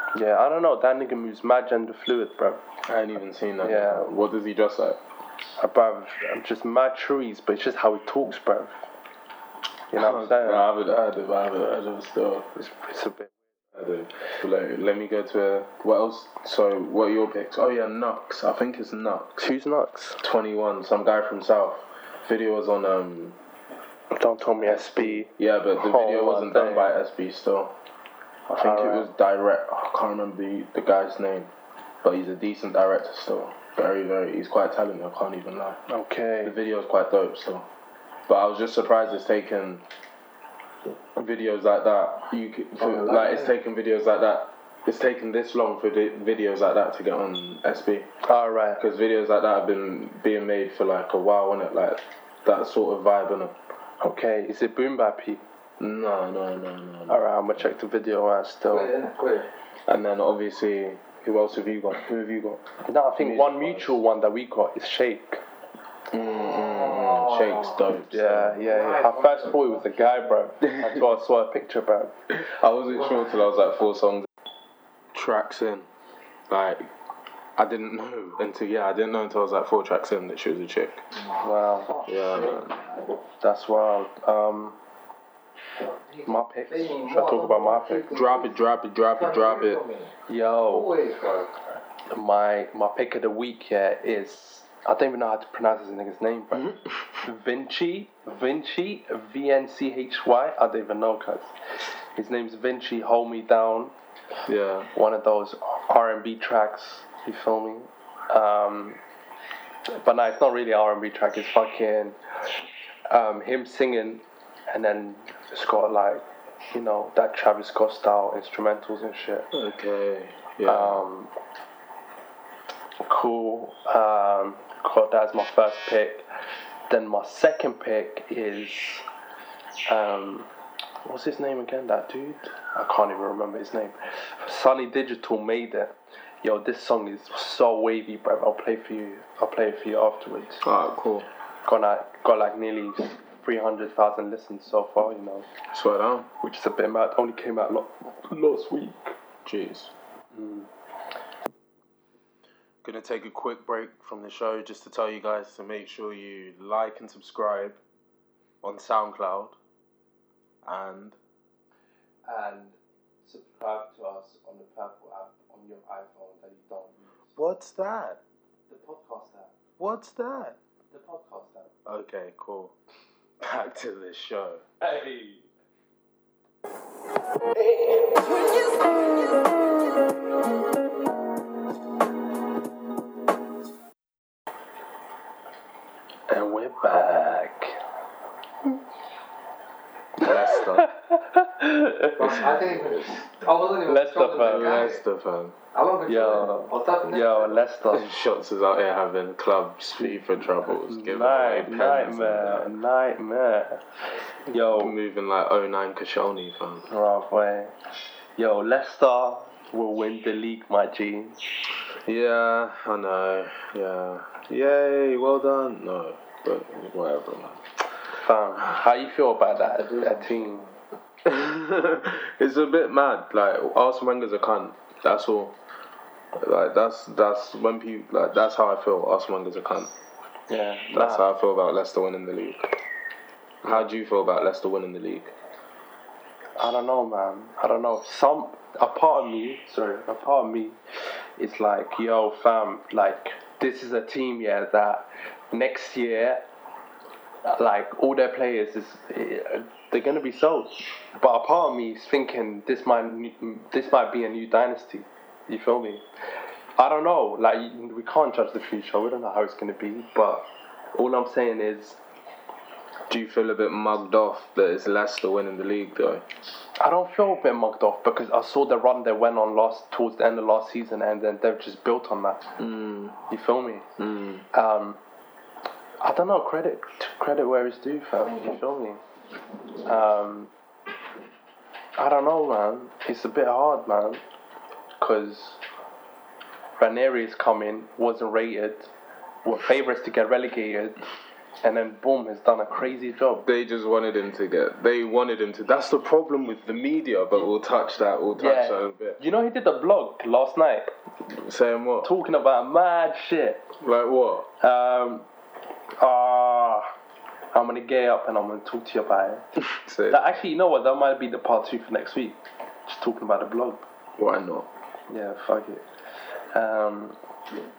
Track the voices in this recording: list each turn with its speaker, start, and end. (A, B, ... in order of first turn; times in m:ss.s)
0:00.1-0:02.6 A
0:02.9-0:05.0 B
0:03.6-0:04.1 A
0:05.6-0:08.8 A
0:09.9-0:10.7 A
0:09.9-0:12.5 B
0:12.6-0:13.3 A
0:13.7-0:19.4 B
0:19.4-0:20.2 A
0:20.2-0:23.4 B
0:24.1-0:26.9 A
0:24.6-0:27.7 B
0:28.5-0:29.1 A
0:28.6-0:31.5 B
0:32.0-0:35.8 B
0:35.9-0:36.6 A
0:36.4-0:37.6 B
0:38.3-0:39.8 B
0:41.2-0:48.1 B
0:42.8-0:43.5 C
0:48.2-0:48.8 A
0:48.8-0:53.5 B
0:54.0-0:55.4 A
0:55.8-0:57.3 B
0:57.1-0:58.9 A
0:58.7-0:59.5 C
0:59.9-1:02.6 B
1:02.8-1:05.4 A
1:03.2-1:04.0 B
1:06.1-1:08.6 B
1:06.5-1:07.7 C
1:08.1-1:12.1 A
1:08.6-1:10.3 C
1:10.6-1:11.0 B
1:12.3-1:14.3 B
1:15.1-1:15.9 B
1:16.5-1:16.9 B
1:17.6-1:21.0 B
1:21.1-1:22.7 C
1:21.4-1:21.9 A
1:22.0-1:22.8 B
1:23.4-1:24.8 A
1:25.8-1:28.5 C
1:26.2-1:28.1 A
1:28.1-1:29.8 B
1:29.1-1:30.1 C
1:30.3-1:30.9 A
1:30.6-1:31.5 C
1:32.1-1:41.5 A
1:42.1-1:43.9 A
1:44.5-1:44.9 B
1:44.9-1:49.0 A
1:49.9-1:52.2 A
1:53.1-1:59.5 A
1:59.5-2:01.0 B
2:00.6-2:01.3 A
2:03.0-2:06.2 A
2:06.9-2:09.0 A
2:09.9-2:10.5 A
2:11.0-2:20.7 A
2:20.6-2:21.3 B
2:21.6-2:25.5 A
2:25.7-2:26.3 B
2:26.4-2:29.2 A
2:29.4-2:29.9 B
2:30.3-2:30.7 A
2:32.8-2:37.8 B
2:38.6-2:39.6 B
2:40.6-2:41.2 B
2:42.2-2:47.0 A
2:47.4-2:48.2 B
2:48.7-2:49.5 A
2:49.8-2:50.6 B
2:50.9-2:51.7 A
2:51.8-2:52.7 B
2:53.4-2:54.6 B
2:54.8-2:55.5 A
3:06.3-3:07.8 A
3:10.2-3:10.8 B
3:10.2-3:12.5 A
3:12.2-3:15.0 C
3:12.3-3:13.1 B
3:13.8-3:14.9 A
3:14.4-3:15.6 B
3:15.7-3:17.6 C
3:16.1-3:18.1 A
3:17.9-3:22.7 B
3:20.8-3:23.8 A
3:24.5-3:24.9 A
3:24.5-3:26.9 B
3:26.9-3:27.8 A
3:28.4-3:31.4 A
3:32.0-3:37.6 B
3:38.1-3:40.6 A
3:39.8-3:40.6 C
3:41.2-3:45.6 B
3:46.3-3:49.9 B
3:50.5-3:51.2 A
3:50.9-3:52.8 B
3:53.6-3:55.3 B
3:56.6-4:00.8 A
4:01.4-4:06.4 A
4:07.4-4:16.0 A
4:16.8-4:22.0 A
4:23.1-4:26.2 B
4:26.8-4:32.5 A
4:32.6-4:33.2 B
4:33.3-4:33.9 A
4:34.0-4:34.4 B
4:34.5-4:35.0 A
4:36.0-4:39.0 A
4:39.8-4:40.5 A
4:42.0-4:44.2 A
4:45.0-4:45.6 A
4:46.8-4:48.9 A
4:49.4-4:51.0 A
4:51.6-4:53.4 A
4:53.4-4:59.2 B
4:58.3-5:00.9 A
5:01.3-5:02.1 B
5:02.0-5:03.7 A
5:03.8-5:04.5 B
5:04.6-5:05.3 A
5:06.0-5:06.9 A
5:07.5-5:09.4 A
5:09.6-5:10.3 B
5:10.1-5:13.8 A
5:14.2-5:14.7 B
5:15.1-5:15.8 A
5:16.5-5:17.2 A